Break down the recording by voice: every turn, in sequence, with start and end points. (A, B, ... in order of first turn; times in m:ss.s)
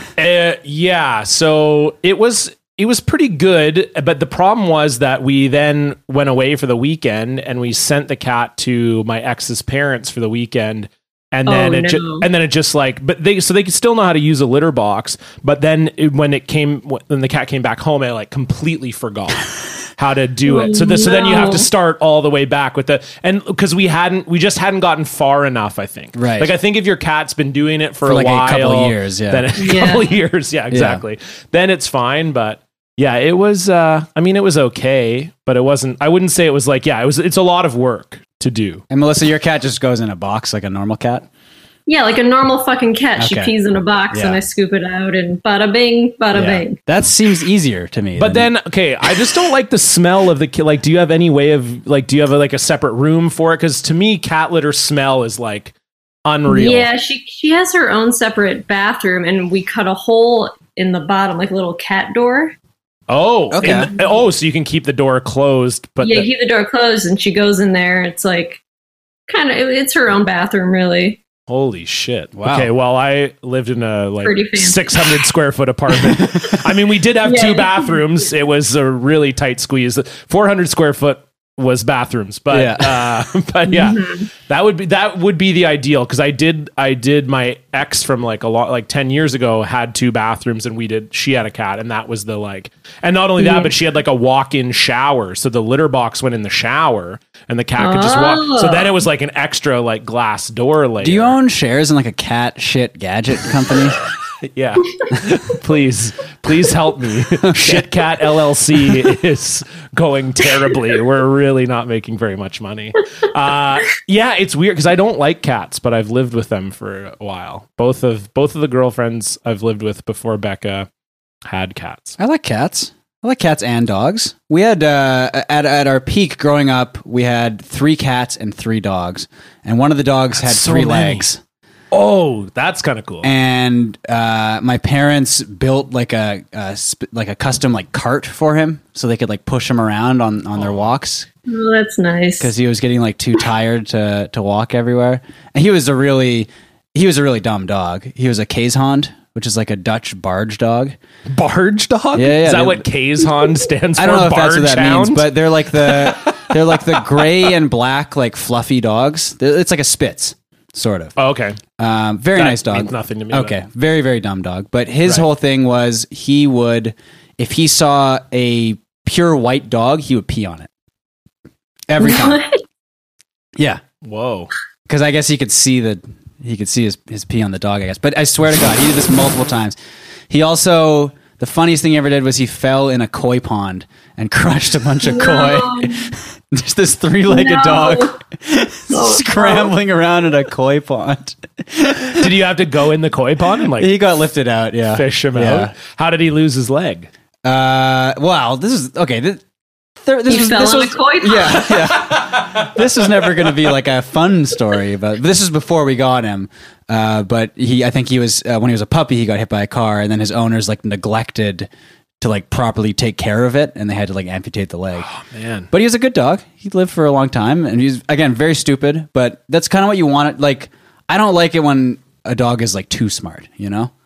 0:00.2-0:38.8 A
0:11.5-0:12.3 B
0:20.5-0:21.7 B
0:26.2-0:26.5 C
0:28.0-0:29.5 C
0:29.6-0:30.1 B
0:30.7-0:31.0 C
0:38.9-0:41.3 C
0:41.9-0:46.8 B
0:43.2-0:43.5 C
0:44.1-0:44.4 C
0:46.3-0:48.5 C
0:48.2-0:55.7 A
0:56.2-0:56.9 A
0:56.5-1:02.6 B
1:03.1-1:06.3 A
1:03.5-1:03.9 C
1:06.0-1:08.6 B
1:09.3-1:11.2 B
1:11.5-1:41.4 A
1:12.4-1:12.7 C
1:14.2-1:15.3 B
1:16.1-1:16.6 C
1:17.2-1:18.0 B
1:22.5-1:23.2 C
1:23.7-1:24.3 B
1:33.4-1:33.7 B
1:37.8-1:38.9 B
1:41.0-1:44.0 C
1:44.5-2:00.9 A
1:47.4-1:47.9 C
1:48.8-1:49.1 C
2:01.4-2:02.2 A
2:02.2-2:11.4 C
2:10.4-2:11.2 A
2:11.9-2:13.3 A
2:13.2-2:21.3 C
2:21.5-2:22.5 B
2:22.4-2:31.0 C
2:31.3-2:37.5 A
2:32.1-2:32.8 C
2:34.0-2:41.2 C
2:41.2-2:41.6 A
2:41.8-2:50.7 C
2:42.4-2:43.6 A
2:51.9-2:52.4 C
2:52.0-2:52.6 B
2:53.6-2:53.8 C
2:54.0-2:54.5 A
2:54.9-2:59.8 C
3:00.3-3:12.3 C
3:05.0-3:06.1 B
3:07.3-3:08.2 B
3:08.9-3:09.7 B
3:12.2-3:14.0 A
3:13.6-3:15.7 C
3:14.9-3:17.1 A
3:17.4-3:19.4 C
3:20.0-3:31.7 C
3:20.3-3:21.8 B
3:21.8-3:22.9 A
3:32.2-3:35.1 C
3:35.0-3:35.7 A
3:35.7-3:43.9 C